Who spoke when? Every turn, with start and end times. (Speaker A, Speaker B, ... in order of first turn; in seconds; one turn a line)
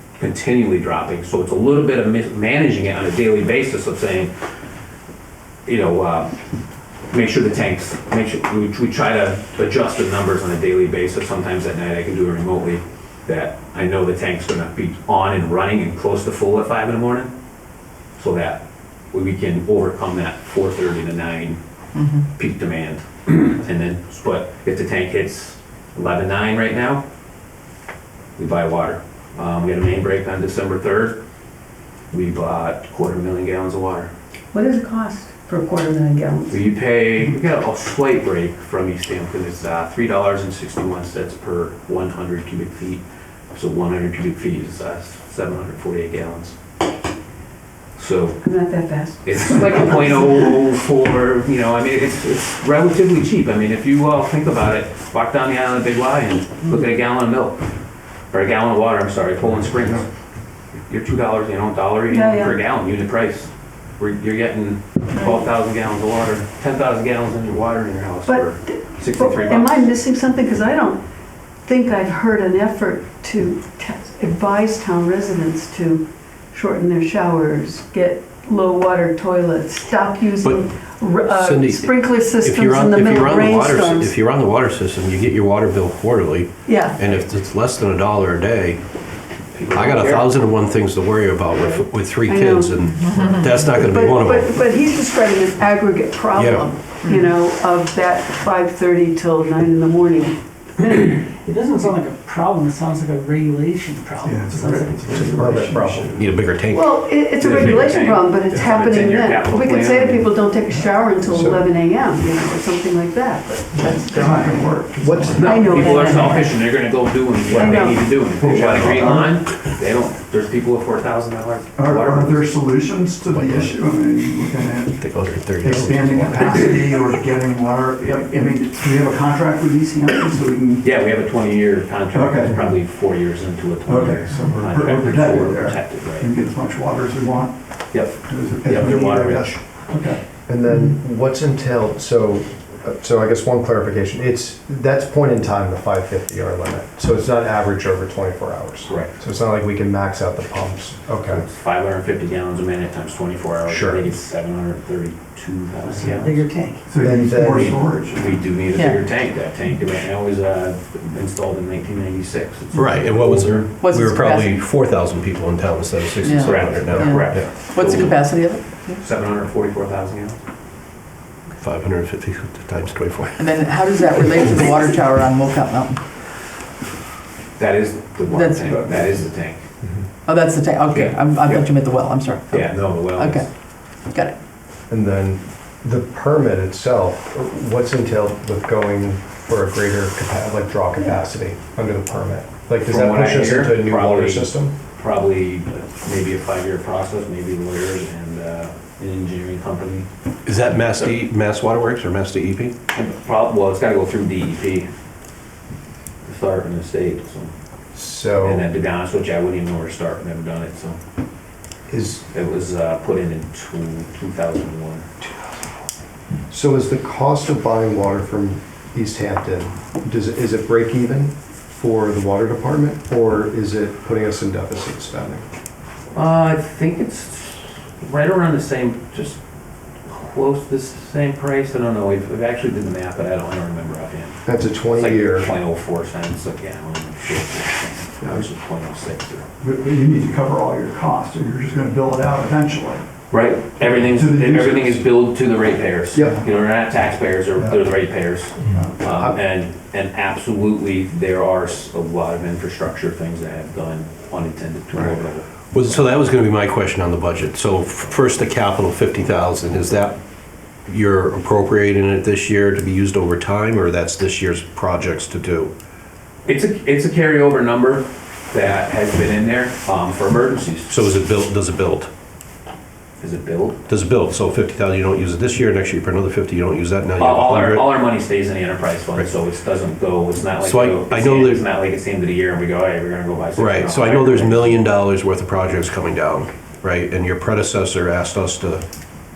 Speaker A: 0.2-4.3
Speaker A: 5.7-6.3
Speaker A: 7.1-17.3
Speaker A: 18.2-21.6
Speaker B: 22.0-22.2
Speaker A: 22.1-27.0
Speaker A: 28.4-31.2
Speaker A: 32.1-34.1
Speaker C: 34.5-36.6
Speaker A: 36.5-43.0
Speaker A: 43.5-46.6
Speaker A: 48.0-48.4
Speaker C: 48.4-50.5
Speaker A: 49.2-57.6
Speaker A: 58.3-60.1
Speaker A: 60.8-69.9
Speaker C: 62.1-62.6
Speaker C: 68.3-71.0
Speaker C: 71.6-84.1
Speaker D: 80.4-80.7
Speaker D: 81.2-88.8
Speaker C: 86.7-87.0
Speaker A: 89.5-90.3
Speaker D: 89.7-94.6
Speaker C: 92.3-92.9
Speaker C: 93.7-101.3
Speaker D: 96.3-96.7
Speaker E: 101.3-105.4
Speaker F: 104.2-106.3
Speaker G: 105.1-106.2
Speaker D: 106.1-107.8
Speaker C: 106.7-114.7
Speaker A: 107.4-110.3
Speaker F: 110.7-111.3
Speaker G: 111.3-111.6
Speaker F: 113.7-116.5
Speaker G: 115.0-115.5
Speaker A: 115.3-122.5
Speaker C: 115.4-116.4
Speaker C: 117.5-118.2
Speaker G: 117.5-119.3
Speaker F: 118.4-119.3
Speaker F: 121.8-130.9
Speaker D: 123.3-123.8
Speaker D: 125.0-126.5
Speaker A: 130.8-136.3
Speaker F: 132.1-132.8
Speaker F: 133.8-140.2
Speaker A: 137.9-139.6
Speaker G: 140.5-151.4
Speaker A: 148.9-149.1
Speaker A: 151.3-156.4
Speaker G: 153.7-154.1
Speaker E: 155.9-156.8
Speaker F: 156.9-158.4
Speaker G: 157.0-157.8
Speaker A: 157.5-163.8
Speaker B: 158.7-159.0
Speaker D: 162.7-167.8
Speaker B: 163.8-164.4
Speaker A: 166.4-170.4
Speaker B: 166.9-169.0
Speaker D: 171.6-173.6
Speaker B: 173.4-176.0
Speaker A: 177.6-179.7
Speaker B: 178.3-178.8
Speaker B: 180.3-183.5
Speaker A: 180.9-181.7
Speaker A: 182.5-183.5
Speaker B: 184.1-184.3
Speaker G: 184.9-194.7
Speaker A: 192.8-200.1
Speaker D: 200.5-202.7
Speaker A: 202.9-204.9
Speaker A: 206.2-207.5
Speaker G: 207.9-208.7
Speaker A: 208.4-211.0
Speaker G: 211.9-212.2
Speaker A: 212.3-215.1
Speaker G: 215.2-215.7
Speaker G: 216.5-225.4
Speaker A: 226.1-229.4
Speaker A: 230.1-239.4
Speaker G: 234.4-235.5
Speaker G: 238.2-238.5
Speaker F: 239.6-243.1
Speaker A: 243.3-256.1
Speaker F: 243.8-245.1
Speaker G: 246.1-246.4
Speaker F: 248.7-249.0
Speaker G: 249.0-249.4
Speaker D: 255.7-260.2
Speaker D: 260.9-265.7
Speaker A: 266.5-271.1
Speaker D: 270.9-272.1
Speaker A: 273.2-273.8
Speaker D: 273.9-278.0
Speaker A: 277.2-284.8
Speaker D: 280.6-281.6
Speaker D: 283.6-288.8